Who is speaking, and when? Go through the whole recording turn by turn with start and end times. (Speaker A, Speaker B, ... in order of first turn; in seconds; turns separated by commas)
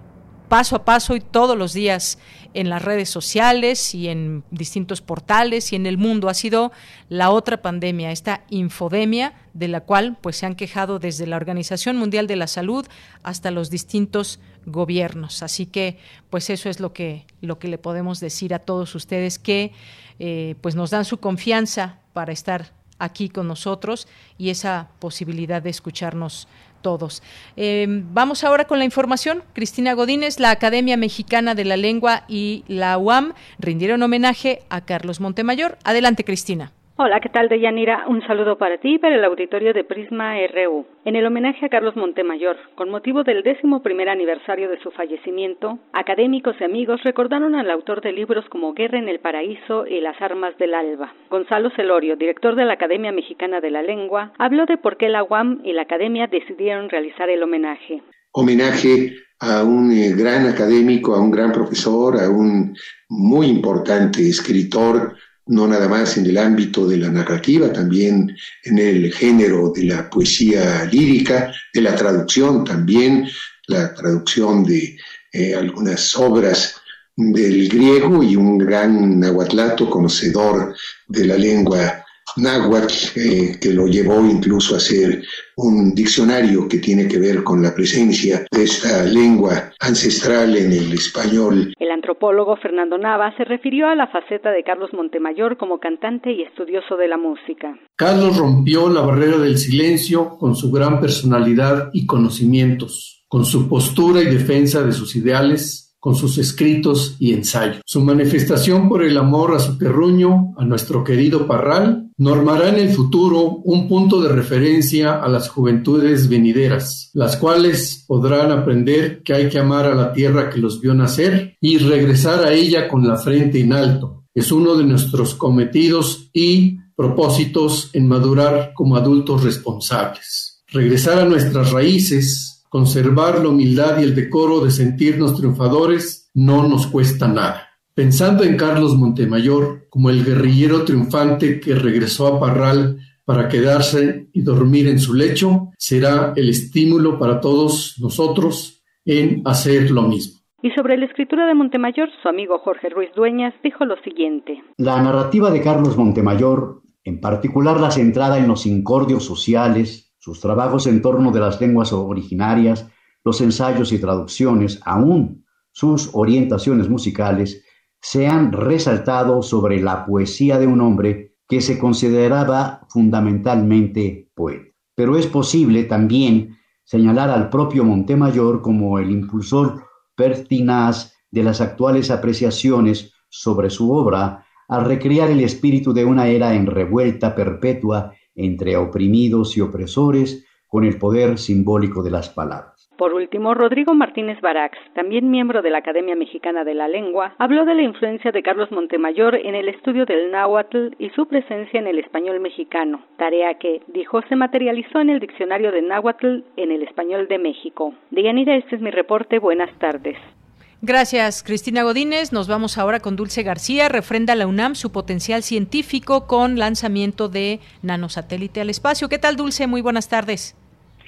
Speaker A: 0.5-36.7, Speaker B: 37.0-58.0, Speaker C: 58.3-91.7, Speaker B: 91.8-97.8, Speaker D: 98.0-150.4, Speaker B: 150.6-154.6, Speaker E: 154.8-192.8, Speaker B: 193.0-210.3, Speaker A: 210.8-220.5